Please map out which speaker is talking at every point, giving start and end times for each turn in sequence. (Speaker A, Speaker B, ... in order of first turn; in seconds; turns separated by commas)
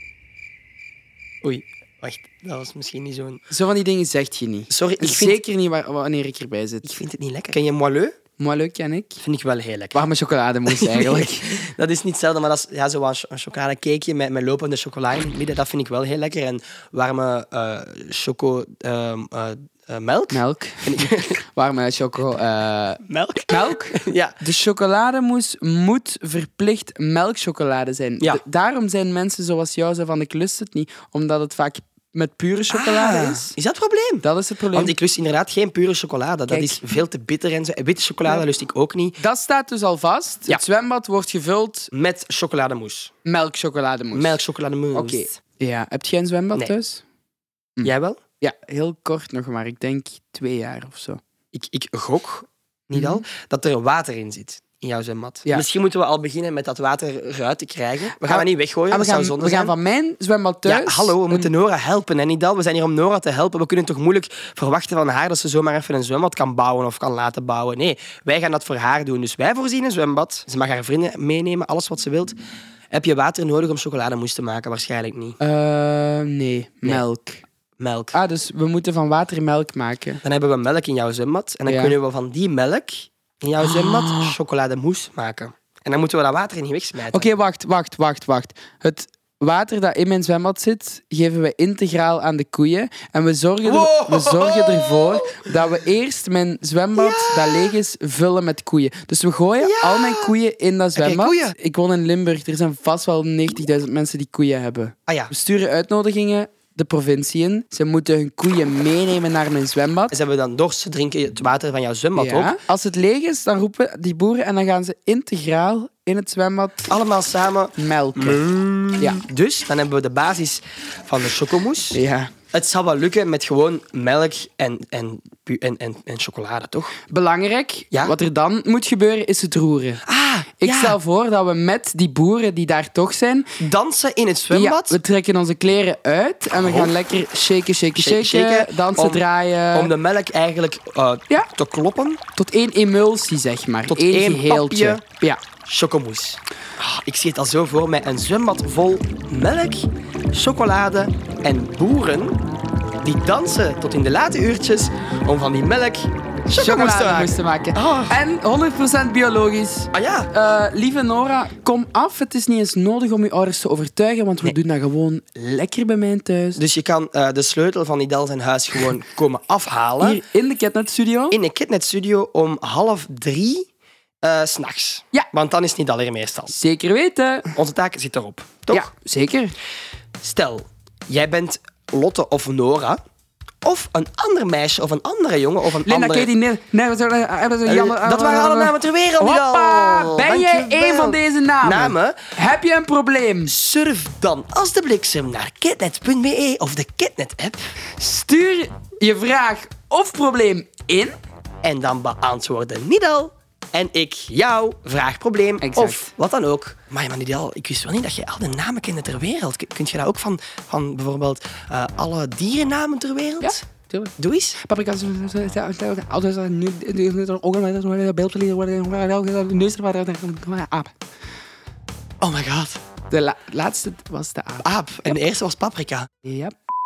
Speaker A: 1.4-3.4, Speaker B: 3.5-7.0, Speaker A: 4.7-5.4, Speaker A: 6.8-8.2, Speaker B: 8.4-9.2, Speaker A: 9.2-10.1, Speaker B: 9.9-11.5, Speaker A: 10.7-21.4, Speaker B: 20.3-33.5, Speaker A: 23.1-24.4, Speaker A: 32.7-39.2, Speaker B: 34.2-35.0, Speaker B: 36.5-36.8, Speaker B: 39.2-41.9, Speaker A: 41.9-43.1, Speaker B: 43.2-44.4, Speaker A: 44.1-45.3, Speaker B: 44.9-47.0, Speaker B: 47.8-51.2, Speaker A: 47.8-48.2, Speaker A: 51.5-59.7, Speaker B: 52.9-53.2, Speaker B: 58.2-61.5, Speaker A: 60.6-72.4, Speaker A: 72.9-75.4, Speaker B: 75.4-77.4, Speaker A: 77.8-78.2, Speaker B: 78.1-80.2, Speaker A: 80.2-87.3, Speaker B: 81.7-82.0, Speaker B: 83.6-84.4, Speaker B: 87.1-110.1, Speaker A: 93.6-95.5, Speaker A: 97.0-97.8, Speaker A: 99.6-100.3, Speaker A: 101.0-101.6, Speaker A: 105.1-105.3, Speaker A: 110.1-112.5, Speaker B: 112.2-116.9, Speaker A: 116.9-122.0, Speaker B: 117.8-118.4, Speaker B: 121.9-122.3, Speaker A: 122.5-126.9, Speaker B: 127.1-130.0, Speaker A: 130.1-131.0, Speaker B: 130.6-133.5, Speaker A: 133.6-135.0, Speaker B: 134.5-139.9, Speaker A: 136.5-137.0, Speaker A: 138.0-142.2, Speaker B: 142.4-145.4, Speaker A: 143.9-145.0, Speaker A: 145.7-152.4, Speaker A: 153.0-158.2, Speaker B: 156.5-166.6, Speaker A: 159.9-160.3, Speaker A: 166.6-170.2, Speaker B: 170.0-171.4, Speaker A: 171.3-173.7, Speaker A: 174.2-176.5, Speaker B: 176.5-177.5, Speaker A: 177.5-178.9, Speaker B: 178.7-179.6, Speaker A: 180.2-183.0, Speaker A: 183.6-186.3, Speaker B: 185.8-193.5, Speaker A: 187.7-192.2, Speaker A: 193.5-197.6, Speaker B: 198.0-201.2, Speaker A: 201.6-213.7, Speaker B: 205.6-206.1, Speaker B: 213.4-220.9, Speaker A: 214.2-214.6, Speaker A: 222.2-222.8, Speaker B: 223.1-225.1, Speaker A: 224.6-226.1, Speaker B: 226.2-226.5